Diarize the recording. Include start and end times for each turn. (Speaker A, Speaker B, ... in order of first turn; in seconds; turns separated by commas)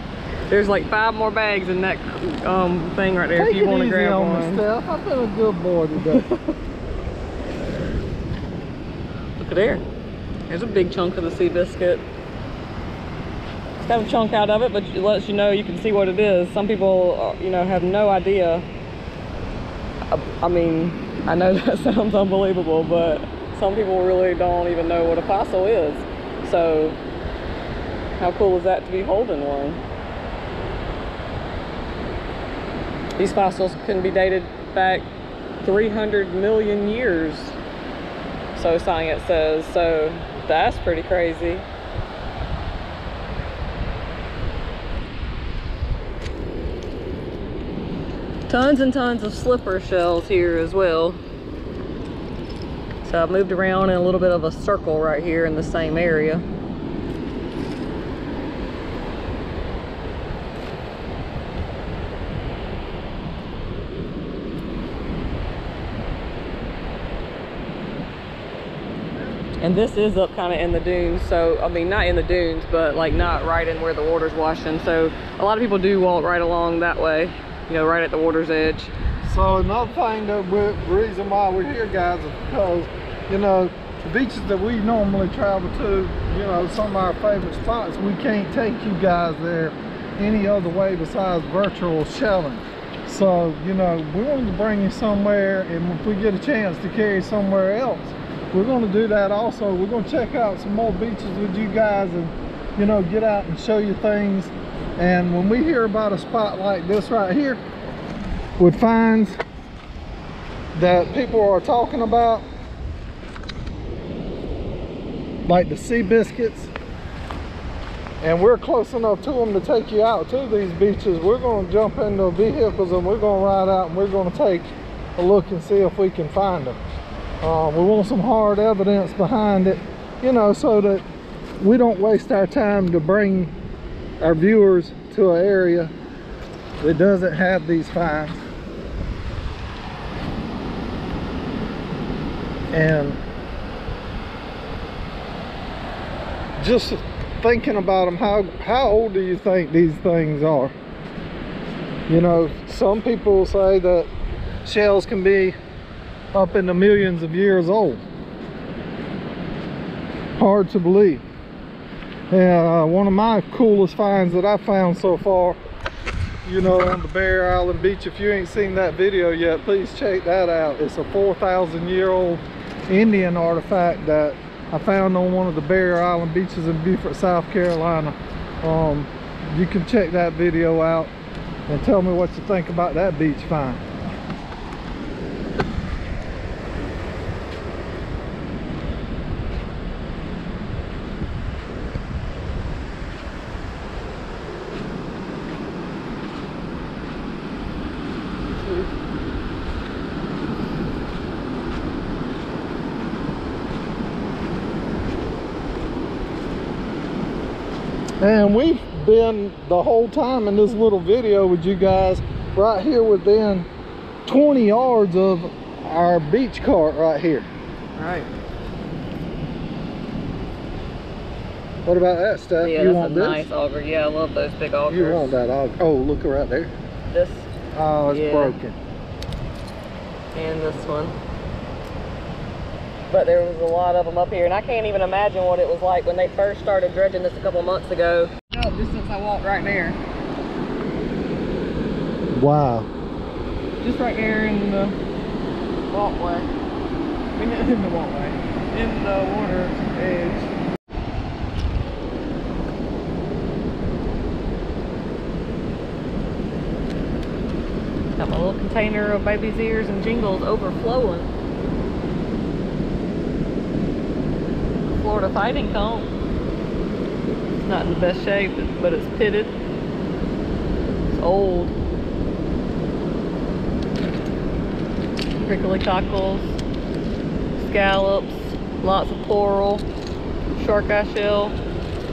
Speaker A: 0.5-4.6, Speaker B: 3.3-6.3, Speaker A: 6.1-6.5, Speaker A: 9.4-9.8, Speaker A: 10.5-12.0, Speaker A: 13.8-18.6, Speaker A: 20.1-27.0, Speaker A: 28.2-29.8, Speaker A: 33.2-35.0, Speaker A: 35.6-37.6, Speaker A: 38.5-41.7, Speaker A: 48.5-51.2, Speaker A: 53.0-56.4, Speaker A: 69.6-78.9, Speaker B: 79.2-107.6, Speaker B: 108.6-109.4, Speaker B: 110.7-112.4, Speaker B: 115.5-116.7, Speaker B: 118.2-126.8, Speaker B: 127.4-131.0, Speaker B: 131.6-133.5, Speaker B: 134.2-135.9, Speaker B: 136.8-138.4, Speaker B: 142.7-143.2, Speaker B: 146.6-150.7, Speaker B: 152.1-154.1, Speaker B: 154.6-155.6, Speaker B: 156.3-158.0, Speaker B: 160.4-161.2, Speaker B: 162.3-165.6, Speaker B: 166.4-181.1, Speaker B: 181.7-183.8, Speaker B: 208.2-213.7, Speaker B: 214.2-217.5, Speaker A: 217.9-218.3, Speaker B: 221.8-223.5, Speaker A: 222.6-225.4, Speaker B: 224.9-226.7, Speaker A: 227.1-227.5, Speaker B: 227.7-228.8, Speaker A: 228.1-228.6, Speaker A: 230.3-231.1, Speaker A: 233.1-240.0, Speaker B: 242.3-242.9, Speaker A: 243.8-244.9, Speaker A: 245.9-246.5, Speaker A: 247.3-250.5, Speaker A: 258.2-261.3, Speaker A: 264.9-266.1, Speaker A: 267.6-269.6, Speaker A: 271.1-271.7, Speaker A: 275.4-276.6, Speaker A: 277.6-279.8, Speaker A: 280.6-281.6